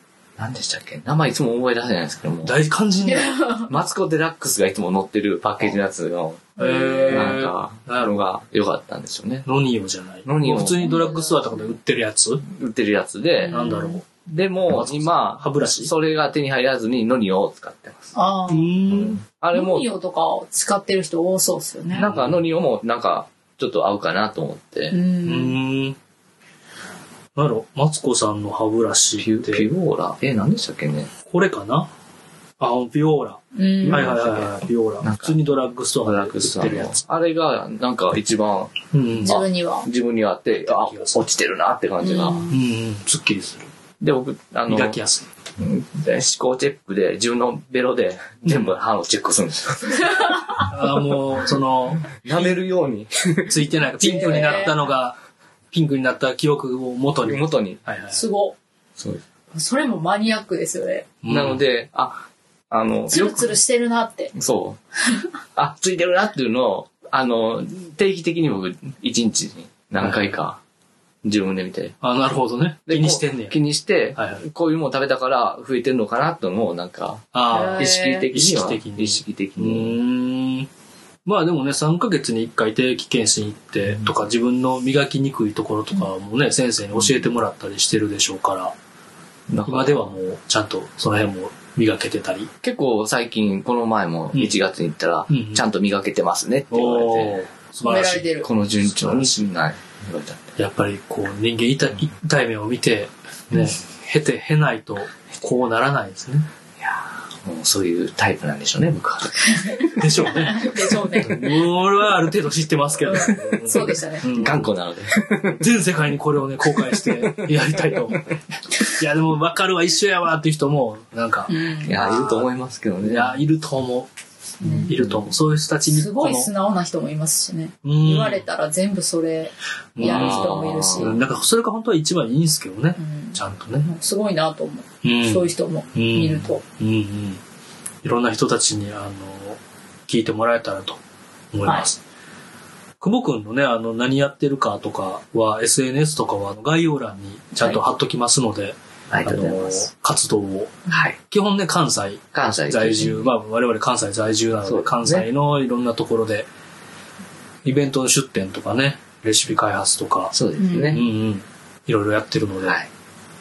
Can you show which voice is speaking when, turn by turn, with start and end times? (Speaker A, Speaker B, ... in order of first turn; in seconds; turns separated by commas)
Speaker A: 0.4-2.5, Speaker B: 2.4-3.3, Speaker C: 3.0-3.7, Speaker A: 3.7-6.5, Speaker C: 6.6-7.4, Speaker B: 6.6-8.2, Speaker A: 7.1-9.5, Speaker B: 9.4-12.4, Speaker A: 10.2-10.9, Speaker C: 10.8-11.6, Speaker A: 12.4-13.7, Speaker C: 13.4-14.0, Speaker B: 13.5-14.1, Speaker A: 14.2-18.1, Speaker B: 14.7-15.9, Speaker C: 18.1-18.7, Speaker B: 18.5-19.2, Speaker A: 18.9-19.9, Speaker C: 19.5-22.1, Speaker A: 21.9-25.0, Speaker B: 22.0-22.4, Speaker C: 24.9-25.6, Speaker B: 25.2-26.0, Speaker B: 27.3-29.6, Speaker A: 29.2-31.1, Speaker B: 31.3-31.9, Speaker B: 32.6-37.0, Speaker C: 33.5-34.1, Speaker A: 33.8-35.4, Speaker A: 35.9-42.5, Speaker B: 38.9-39.4, Speaker C: 39.2-39.9, Speaker B: 40.5-41.3, Speaker C: 42.0-42.5, Speaker B: 42.5-43.7, Speaker A: 44.0-45.0, Speaker B: 44.7-45.3, Speaker A: 45.6-50.3, Speaker B: 48.5-48.7, Speaker C: 50.1-50.6, Speaker B: 50.7-52.2, Speaker A: 52.2-54.6, Speaker B: 53.5-55.1, Speaker C: 54.0-54.8, Speaker B: 55.7-58.2, Speaker A: 57.2-57.8, Speaker C: 58.1-58.6, Speaker C: 59.5-61.1, Speaker B: 61.2-61.6, Speaker A: 61.2-63.5, Speaker C: 63.1-64.3, Speaker A: 64.3-64.8, Speaker A: 65.5-70.6, Speaker B: 70.0-70.3, Speaker A: 71.2-72.0, Speaker B: 72.0-73.6, Speaker A: 72.9-80.0, Speaker B: 74.1-74.4, Speaker B: 77.3-80.7, Speaker C: 77.5-78.3, Speaker B: 81.2-88.7, Speaker A: 83.8-84.1, Speaker A: 89.5-90.1, Speaker B: 89.7-92.5, Speaker A: 92.6-97.4, Speaker B: 95.3-95.6, Speaker B: 96.7-99.4, Speaker C: 97.8-98.5, Speaker A: 98.4-100.5, Speaker B: 100.6-106.5, Speaker A: 106.8-109.8, Speaker B: 110.0-114.7, Speaker C: 110.3-111.4, Speaker C: 113.1-114.5, Speaker A: 113.8-115.6, Speaker B: 115.5-122.0, Speaker C: 121.5-122.5, Speaker A: 121.8-123.4, Speaker B: 123.0-124.1, Speaker A: 124.6-125.2, Speaker C: 124.6-124.9, Speaker B: 124.8-126.5, Speaker C: 125.8-131.2, Speaker B: 127.8-128.4, Speaker B: 129.9-133.9, Speaker A: 130.0-131.2, Speaker C: 133.0-136.6, Speaker B: 135.0-137.4, Speaker B: 138.0-141.0, Speaker B: 141.5-142.0, Speaker C: 141.6-141.9, Speaker B: 143.0-156.5, Speaker A: 149.1-149.8, Speaker A: 150.9-151.2, Speaker A: 152.3-153.3, Speaker A: 154.6-155.3, Speaker B: 157.6-160.3, Speaker A: 160.3-161.0, Speaker C: 160.6-161.0, Speaker B: 160.9-162.8, Speaker A: 162.6-162.9